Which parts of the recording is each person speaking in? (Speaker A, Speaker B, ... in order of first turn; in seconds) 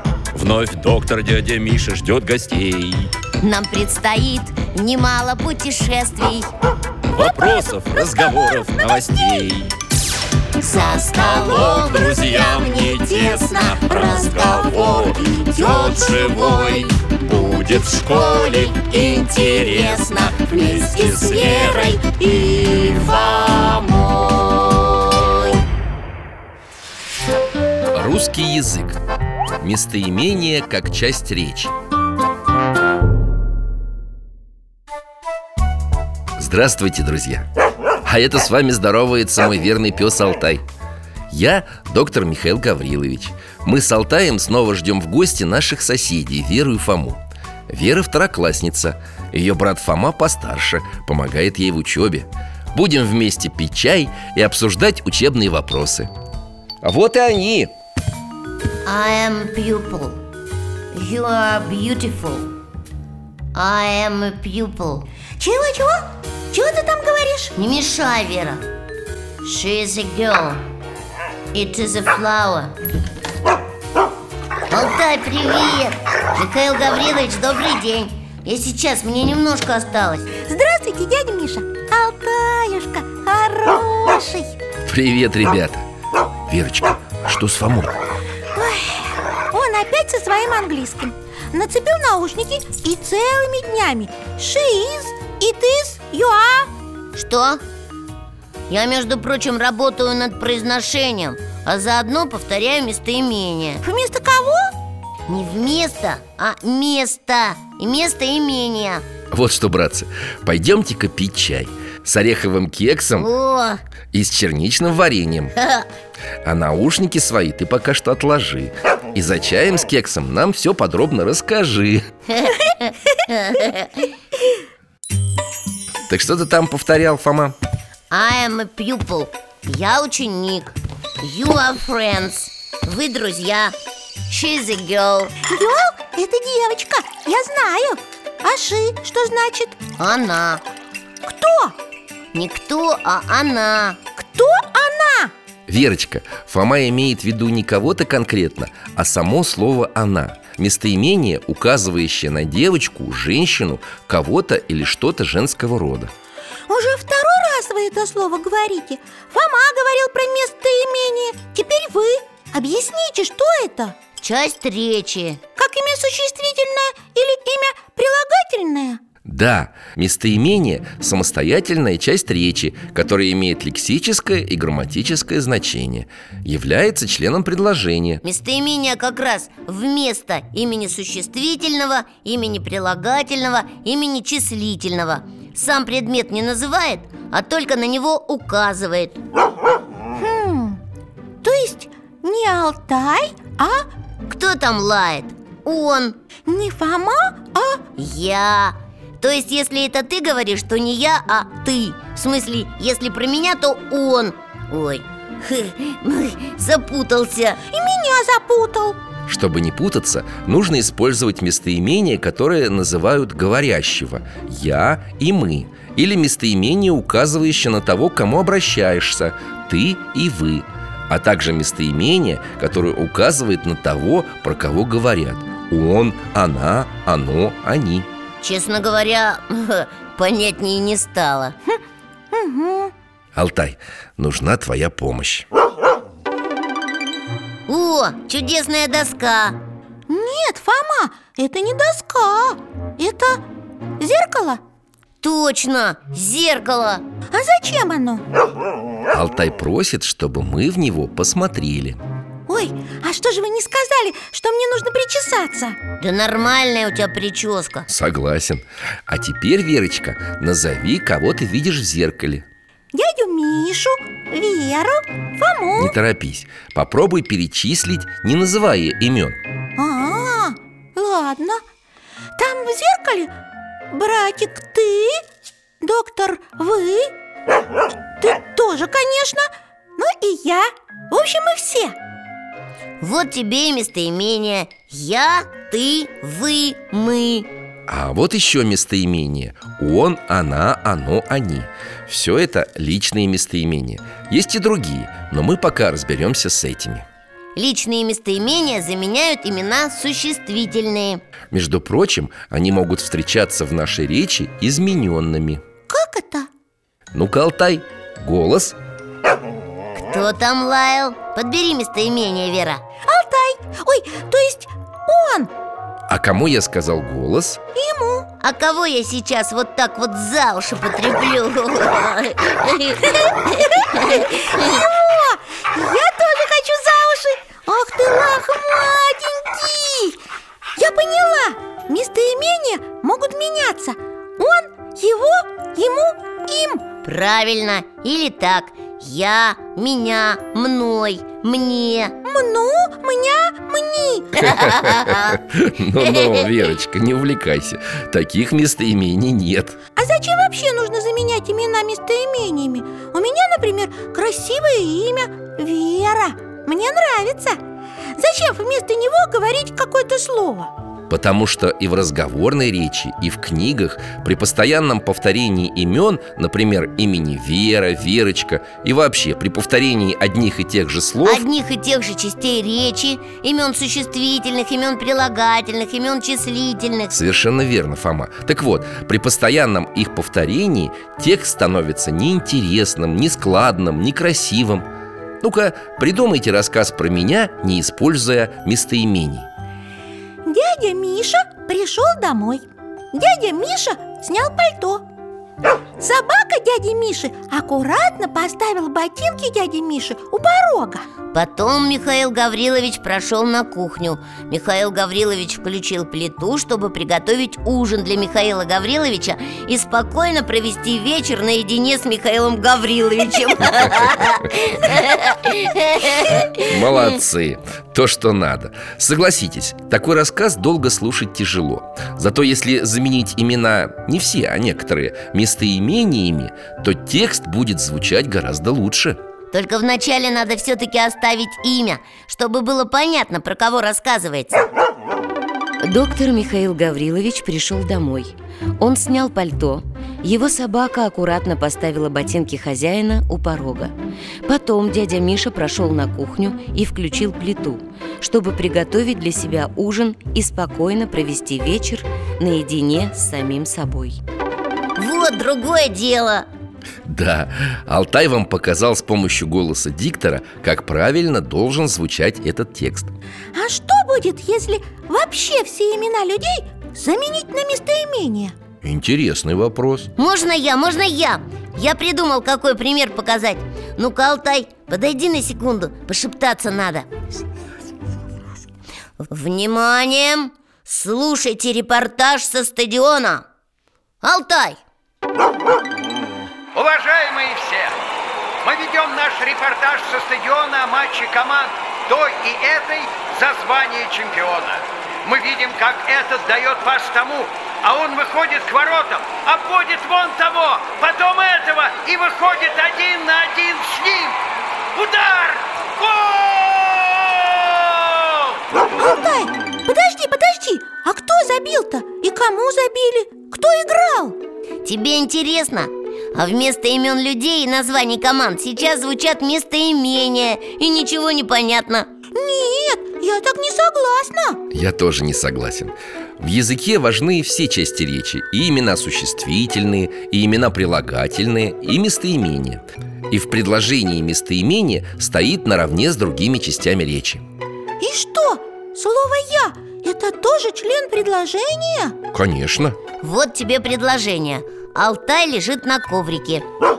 Speaker A: 0.3-3.1, 7.1-9.7, 11.0-23.9
Speaker B: 3.4-6.5, 10.6-12.3, 13.2-16.9, 18.9-20.0, 21.0-22.0, 23.9-24.7, 58.8-60.2, 60.9-62.5, 63.5-65.1, 67.5-68.6, 69.4-70.6, 71.5-72.7, 74.7-80.3, 97.1-97.6, 98.7-103.8, 105.3-109.0, 113.2-113.8, 115.6-115.9, 122.3-124.1, 128.1-133.7, 134.3-135.4, 140.0-140.6, 142.3-144.0, 164.2-165.4, 178.2-189.2, 194.2-196.2, 198.0-207.6, 228.4-231.5, 237.7-239.6, 245.2-247.0, 256.0-257.9, 283.0-287.5, 297.6-301.2, 309.9-312.8, 318.4-324.8, 337.0-342.2, 344.3-345.4, 346.0-346.5, 371.2-377.2, 401.3-416.8, 429.5-434.7, 454.9-456.5, 470.2-477.1, 479.2-483.4, 484.2-484.8, 514.8-522.1, 543.2-546.6
Speaker C: 27.9-29.0, 29.6-31.7, 36.4-37.5, 38.0-40.6, 41.3-56.1, 56.8-57.7, 84.8-85.8, 86.5-88.0, 109.3-113.3, 114.1-115.5, 116.4-122.0, 126.1-127.5, 145.7-156.1, 169.2-178.2, 209.3-228.1, 233.3-235.5, 249.1-252.0, 257.9-262.4, 265.8-269.4, 287.9-297.0, 301.5-305.6, 307.1-308.8, 316.1-317.6, 344.4-349.8, 361.1-371.4, 377.1-384.9, 385.4-389.5, 416.7-429.2, 457.0-463.1, 468.8-470.1, 524.7-537.4, 542.3-543.0
Speaker D: 65.4-67.5, 80.5-84.5, 88.5-96.7, 103.8-104.7, 135.5-139.8, 141.2-141.8, 144.2-145.3, 156.7-163.9, 165.6-169.0, 190.1-190.8, 191.4-193.9, 196.5-197.8, 207.7-209.0, 232.3-232.9, 240.1-243.4, 244.0-244.6, 247.3-248.2, 252.5-255.8, 262.9-265.9, 269.8-271.6, 272.4-273.3, 273.9-275.2, 275.8-277.1, 278.2-281.9, 305.9-306.5, 313.1-315.5, 317.8-318.3, 324.0-330.2, 330.8-336.8, 342.2-344.4, 350.0-357.6, 358.2-360.7, 390.4-395.0, 396.0-401.0, 463.5-468.5, 508.9-514.4, 522.3-524.6, 538.0-542.1
Speaker E: 435.8-443.9, 444.4-454.2
Speaker F: 486.8-487.3, 492.2-492.7, 505.4-508.5